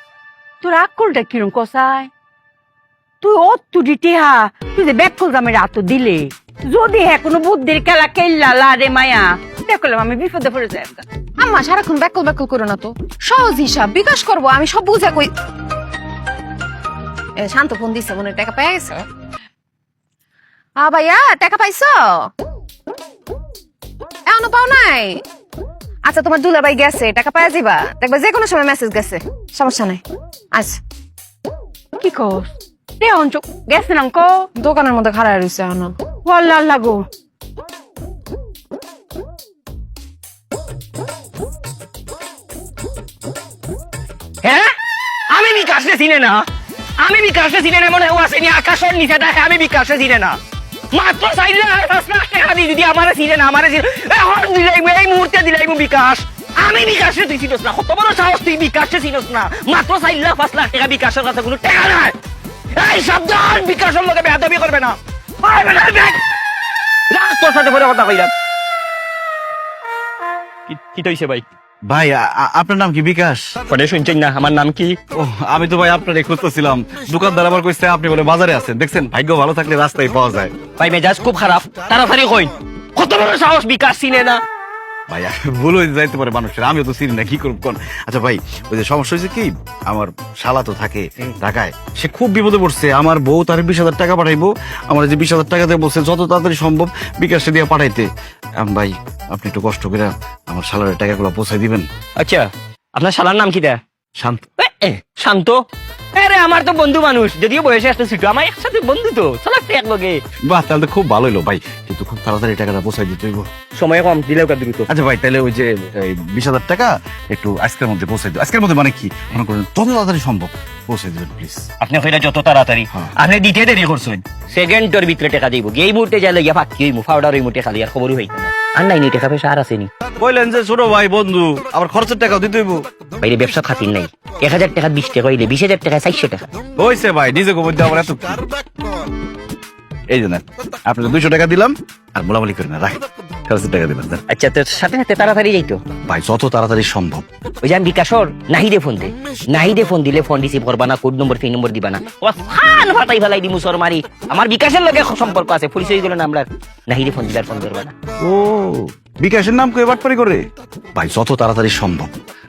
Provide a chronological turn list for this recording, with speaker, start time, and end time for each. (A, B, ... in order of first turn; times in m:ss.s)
0:00.6-0:02.1 A
0:03.2-0:11.1 A
0:11.4-0:15.3 B
0:17.4-0:19.1 B
0:20.8-0:22.3 B
0:24.3-0:25.2 B
0:26.1-0:30.0 B
0:30.5-0:30.8 B
0:32.0-0:34.5 A
0:34.6-0:35.9 B
0:36.2-0:37.0 A
0:44.4-0:44.7 C
0:45.3-0:46.5 C
0:47.0-0:50.4 C
0:50.9-1:02.2 C
1:02.8-1:06.2 C
1:07.1-1:08.3 C
1:10.7-1:11.4 C
1:11.9-1:13.6 D
1:13.7-1:15.0 C
1:15.1-1:20.5 D
1:20.8-1:24.4 C
1:25.1-1:41.9 D
1:42.2-1:43.8 C
1:44.2-1:44.4 D
1:44.6-1:45.6 C
1:46.2-1:50.2 C
1:50.5-1:53.5 D
1:53.8-1:54.9 C
1:54.9-2:01.7 D
2:01.8-2:09.9 C
2:10.2-2:12.8 D
2:13.2-2:16.5 C
2:16.8-2:18.5 D
2:20.1-2:24.2 D
2:24.3-2:25.8 C
2:26.1-2:27.2 D
2:27.6-2:37.9 C
2:38.2-2:40.4 D
2:41.0-2:42.1 D